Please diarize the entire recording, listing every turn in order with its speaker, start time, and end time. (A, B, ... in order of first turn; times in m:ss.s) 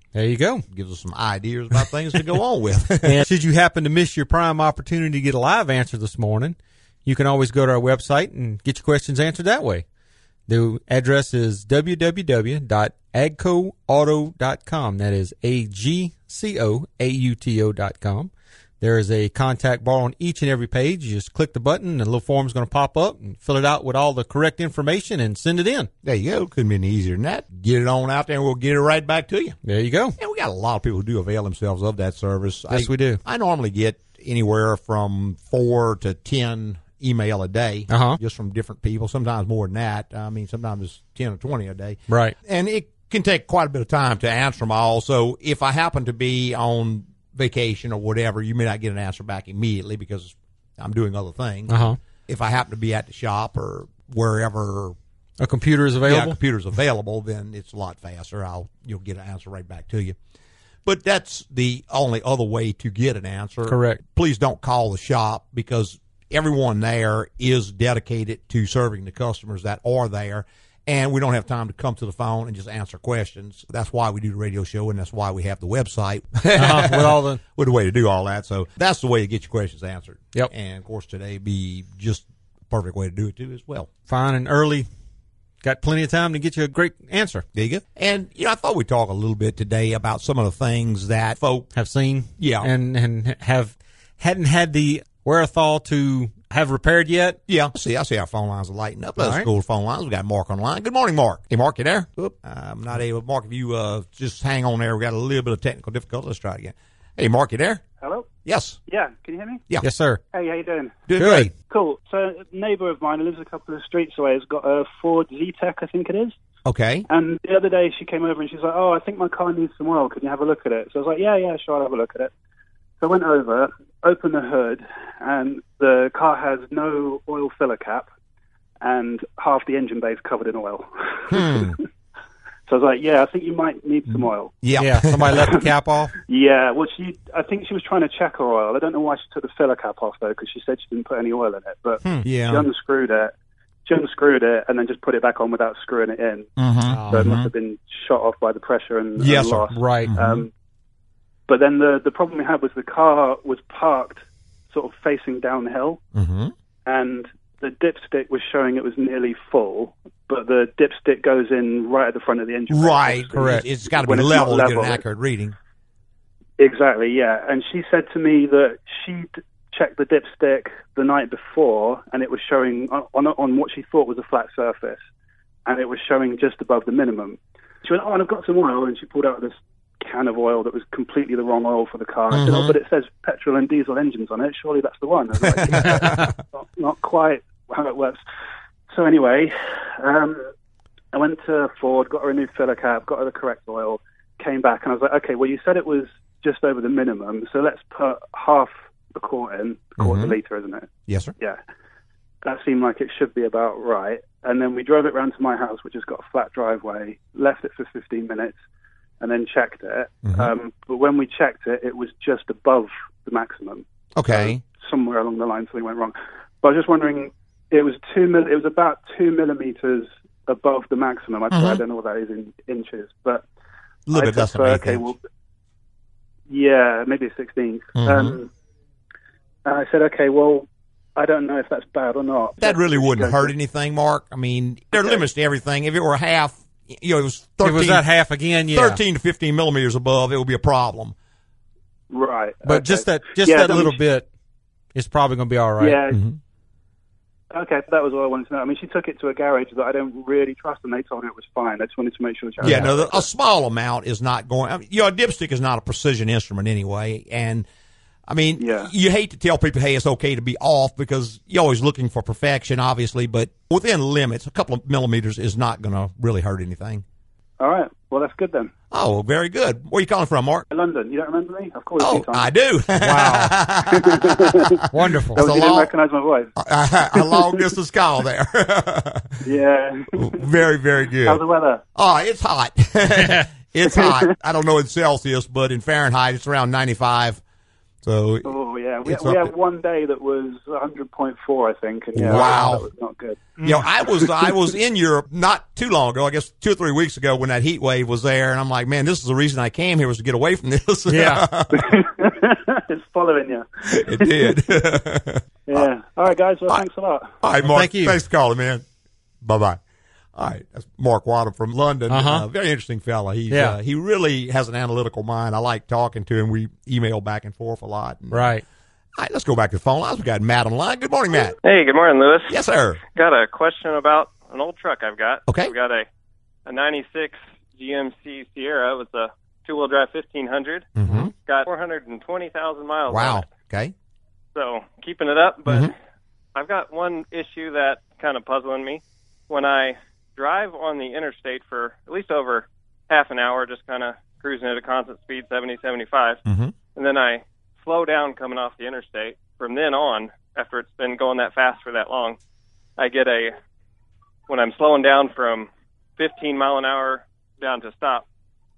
0:00.1-0:00.6 A
0:00.7-0:03.2 B
0:03.0-0:09.8 A
0:10.5-0:18.3 A
0:18.8-0:25.9 A
0:26.0-0:29.6 B
0:29.6-0:30.2 A
0:30.2-0:55.0 B
0:32.7-0:33.2 A
0:37.9-0:38.2 A
0:42.1-0:42.4 A
0:51.7-0:52.0 A
0:55.4-0:56.4 A
0:56.1-1:00.2 B
1:00.9-1:23.9 B
1:03.7-1:04.0 A
1:16.6-1:17.4 A
1:24.1-1:24.9 A
1:25.6-1:27.4 A
1:27.5-1:31.7 B
1:31.7-1:37.4 A
1:32.4-1:32.7 B
1:37.5-1:47.8 B
1:39.2-1:39.5 A
1:48.0-1:48.3 C
1:48.4-1:48.8 B
1:48.9-1:49.6 C
1:49.8-1:50.2 A
1:50.3-1:51.0 C
1:51.1-1:51.5 B
1:51.2-1:51.5 A
1:51.7-1:56.4 C
1:56.6-1:57.1 B
1:57.1-2:02.3 C
2:03.0-2:08.1 C
2:08.8-2:11.8 C
2:11.3-2:11.8 B
2:12.7-2:14.5 C
2:14.1-2:15.5 B
2:14.8-2:16.1 A
2:15.3-2:15.6 C
2:16.3-2:23.3 C
2:22.2-2:22.7 B
2:23.9-2:26.5 C
2:26.6-2:27.5 B
2:26.9-2:27.3 A
2:27.1-2:30.5 C
2:29.2-2:30.5 B
2:29.7-2:30.2 A
2:31.5-2:36.0 C
2:36.1-2:36.5 B
2:36.9-2:45.0 C
2:42.7-2:45.6 B
2:43.4-2:43.7 A
2:46.6-2:55.0 C
2:55.7-3:08.2 C
3:02.3-3:02.8 B
3:05.6-3:06.3 B
3:08.9-3:10.4 C
3:11.1-3:21.6 C
3:20.0-3:20.4 B
3:21.1-3:21.3 B
3:22.4-3:28.6 C
3:29.2-3:43.4 C
3:30.2-3:30.5 B
3:34.2-3:34.6 B
3:41.5-3:41.8 B
3:44.1-3:45.1 B
3:44.1-3:45.2 C
3:46.5-3:48.5 C
3:48.0-3:48.4 B
3:49.6-3:53.5 C
3:52.6-3:58.1 B
3:57.6-3:59.0 A
3:58.7-4:01.2 B
4:02.1-4:04.0 C
4:02.6-4:04.3 A
4:05.0-4:06.0 A
4:05.8-4:06.2 C
4:06.1-4:06.4 B
4:07.5-4:13.3 C
4:12.6-4:12.9 A
4:12.6-4:17.7 B
4:18.3-4:27.0 B
4:18.6-4:18.9 C
4:27.6-4:28.7 C
4:28.9-4:30.7 B
4:30.7-4:32.5 C
4:32.0-4:35.9 B
4:33.0-4:33.6 A
4:33.9-4:34.8 C
4:34.9-4:35.4 A
4:35.4-4:36.5 C
4:36.6-4:39.4 B
4:37.2-4:37.6 C
4:39.4-4:40.5 C
4:40.2-4:41.4 B
4:41.2-4:41.8 C
4:42.0-4:47.4 B
4:43.1-4:43.5 A
4:43.9-4:44.3 C
4:48.0-4:49.5 B
4:48.4-4:53.5 C
4:52.2-4:52.9 B
4:52.2-4:52.6 A
4:53.6-5:02.0 B
5:01.1-5:01.5 A
5:01.7-5:04.6 C
5:03.9-5:05.9 B
5:05.7-5:07.3 C
5:07.4-5:08.8 B
5:07.6-5:08.2 A
5:09.4-5:09.8 B
5:10.4-5:18.5 B
5:12.1-5:12.5 A
5:13.5-5:13.8 A
5:18.3-5:18.6 A
5:19.2-5:21.6 B
5:21.6-5:26.0 D
5:22.5-5:23.0 B
5:25.5-5:25.7 B
5:26.7-5:33.4 D
5:31.0-5:31.3 B
5:33.1-5:33.9 B
5:34.6-5:35.9 D
5:35.7-5:35.9 B
5:36.6-5:46.4 D
5:46.5-5:46.7 B
5:47.0-5:52.4 D
5:53.0-5:53.5 D
5:54.5-5:58.2 D